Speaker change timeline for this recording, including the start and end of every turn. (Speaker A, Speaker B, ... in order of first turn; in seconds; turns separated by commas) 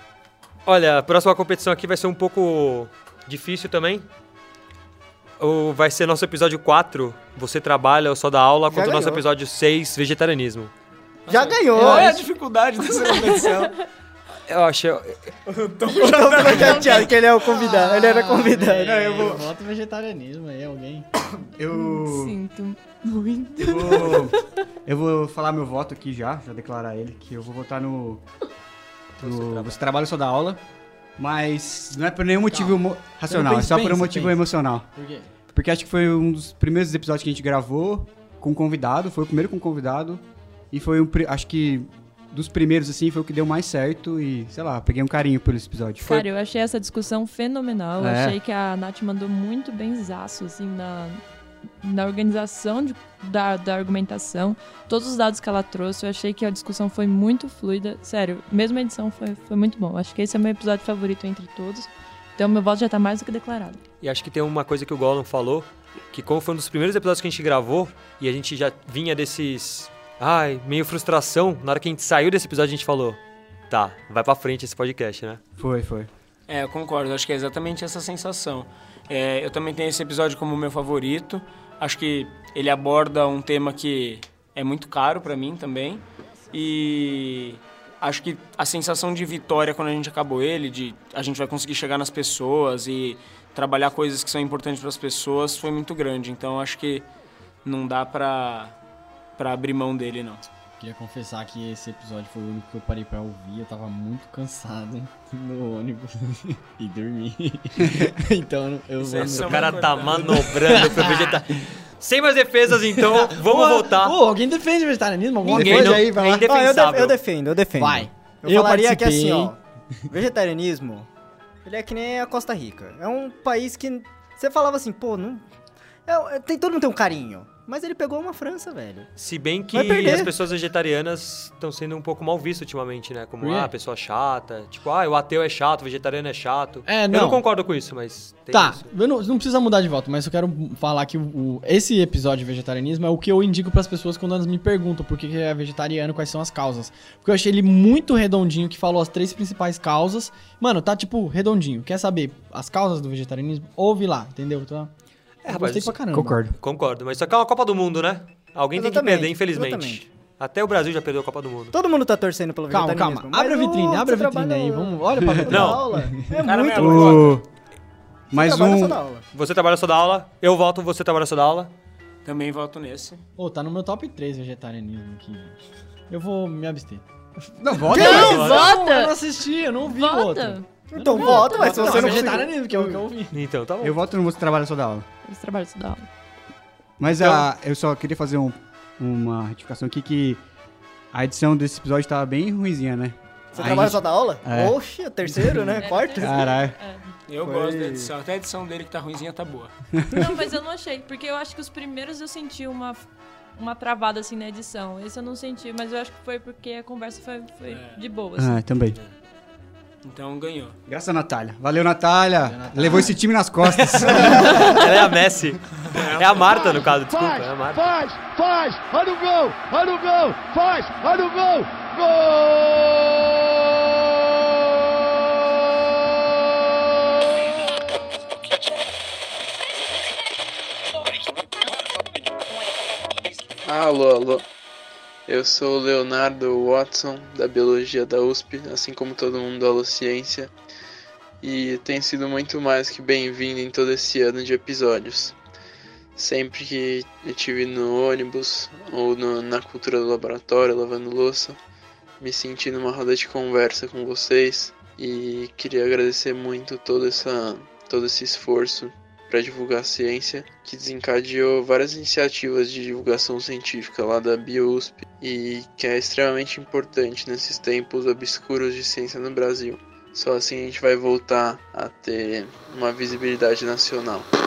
Speaker A: 0.7-4.1, Speaker A: 5.4-10.7, Speaker B: 8.7-9.2, Speaker C: 11.3-13.8, Speaker B: 11.3-12.2, Speaker D: 13.1-13.7, Speaker A: 14.5-15.2, Speaker C: 15.5-17.1, Speaker B: 16.0-19.1, Speaker D: 16.5-17.7, Speaker E: 18.2-21.1, Speaker F: 18.8-19.5, Speaker F: 21.6-22.4, Speaker D: 21.7-24.4, Speaker F: 23.6-28.2, Speaker A: 29.2-29.8, Speaker F: 29.2-30.6, Speaker F: 31.2-34.9, Speaker E: 32.5-34.4, Speaker E: 35.0-35.3, Speaker F: 35.5-46.2, Speaker D: 46.0-51.2, Speaker F: 48.0-48.4, Speaker D: 51.8-63.8, Speaker A: 64.0-75.4, Speaker F: 75.6-76.1, Speaker C: 76.5-97.1, Speaker C: 97.6-98.8, Speaker C: 99.4-100.4, Speaker E: 100.8-111.4, Speaker C: 109.0-110.5, Speaker A: 109.2-114.2, Speaker E: 113.0-116.1, Speaker F: 115.5-116.5, Speaker A: 115.5-117.2, Speaker B: 116.4-119.6, Speaker E: 117.8-119.5, Speaker B: 120.1-121.1, Speaker B: 121.7-125.5, Speaker B: 126.1-129.1, Speaker A: 129.2-138.9, Speaker B: 129.7-130.3, Speaker E: 133.4-133.7, Speaker E: 136.9-137.4, Speaker E: 138.5-154.9, Speaker A: 155.4-156.0, Speaker E: 155.5-156.4, Speaker F: 156.1-156.6, Speaker A: 156.6-161.8, Speaker B: 158.8-160.0, Speaker B: 161.7-167.3, Speaker E: 162.7-166.4, Speaker A: 165.5-165.8, Speaker C: 166.4-167.4, Speaker F: 166.8-167.5, Speaker F: 168.3-169.0, Speaker B: 168.3-169.2, Speaker A: 169.3-171.7, Speaker C: 172.2-173.2, Speaker E: 173.4-175.6, Speaker E: 176.1-177.0, Speaker F: 177.6-178.5, Speaker E: 177.7-183.4, Speaker D: 177.9-179.2, Speaker A: 178.2-178.7, Speaker D: 179.8-181.6, Speaker B: 180.9-183.0, Speaker A: 183.3-184.0, Speaker F: 183.8-185.1, Speaker D: 185.2-186.1, Speaker F: 187.0-190.4, Speaker F: 191.1-196.8, Speaker B: 193.5-196.6, Speaker D: 195.8-197.0, Speaker C: 197.3-199.7, Speaker B: 197.4-198.1, Speaker D: 200.1-203.0, Speaker D: 203.6-208.6, Speaker C: 207.7-208.0, Speaker F: 208.4-209.0, Speaker C: 210.0-210.8, Speaker F: 210.9-214.6, Speaker E: 212.4-213.2, Speaker A: 214.1-218.0, Speaker C: 215.9-216.7, Speaker G: 217.0-223.0, Speaker H: 233.6-234.4, Speaker H: 235.3-240.5, Speaker H: 241.4-245.3, Speaker H: 246.2-251.6, Speaker H: 252.2-274.3